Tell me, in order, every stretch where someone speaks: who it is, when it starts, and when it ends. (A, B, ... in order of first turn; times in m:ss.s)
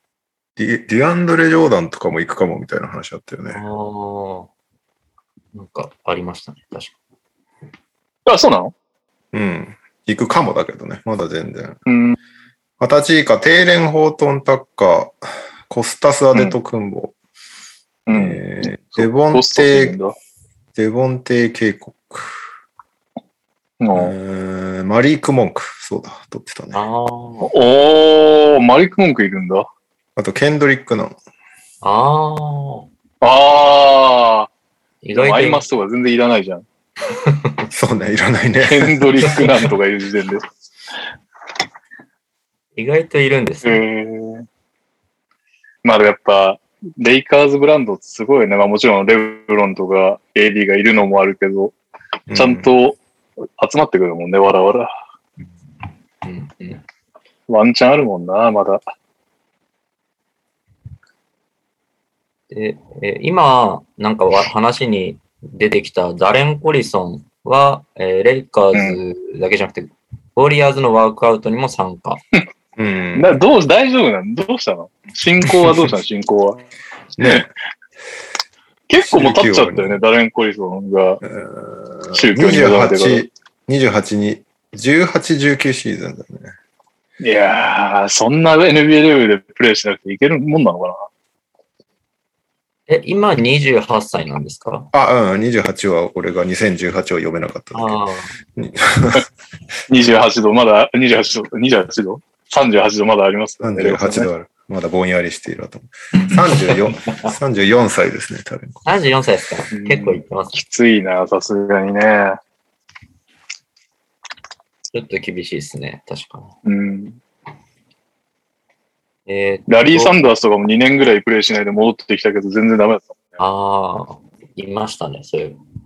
0:00.6-0:03.6 A
0:03.5-0:04.5 B
0:05.5-0:06.9 B
0:08.3-0:08.7 C
0:09.3-0:11.8 A
0:11.9-0:12.2 C
0:12.8-0:17.2 A
0:18.1-0:20.2 C
0:18.1-0:20.0 A
0:20.8-0:22.4 A
0:23.8-0:24.2 C
0:23.9-0:26.8 A
0:26.7-0:27.5 B
0:27.5-0:29.7 C
0:30.2-0:31.2 A
0:31.8-0:32.9 B
0:33.2-0:34.5 C
0:35.0-0:35.6 B
0:35.2-0:36.6 C
0:37.3-0:37.6 B
0:37.7-0:39.2 A
0:38.7-0:40.4 C
0:42.8-0:43.8 B
0:43.6-0:44.5 C
0:45.8-0:51.8 C
0:52.3-0:52.7 A
0:52.3-0:53.0 C
0:53.6-0:54.9 C
0:56.2-0:56.8 B
0:57.5-0:58.8 C
1:02.5-1:12.2 B
1:12.8-1:13.4 A
1:13.2-1:16.6 C
1:17.2-1:17.5 A
1:18.9-1:21.2 C
1:19.0-1:20.0 A
1:21.2-1:26.5 A
1:22.1-1:23.3 C
1:27.2-1:31.1 C
1:32.9-1:34.9 B
1:34.9-1:38.0 A
1:37.7-1:38.3 B
1:38.6-1:39.3 A
1:39.9-1:44.3 C
1:43.6-1:48.8 A
1:48.9-1:50.6 B
1:49.7-1:52.4 C
1:54.9-1:56.5 B
1:56.7-1:57.2 C
1:59.3-2:00.2 B
1:59.7-2:03.3 C
2:03.4-2:05.6 B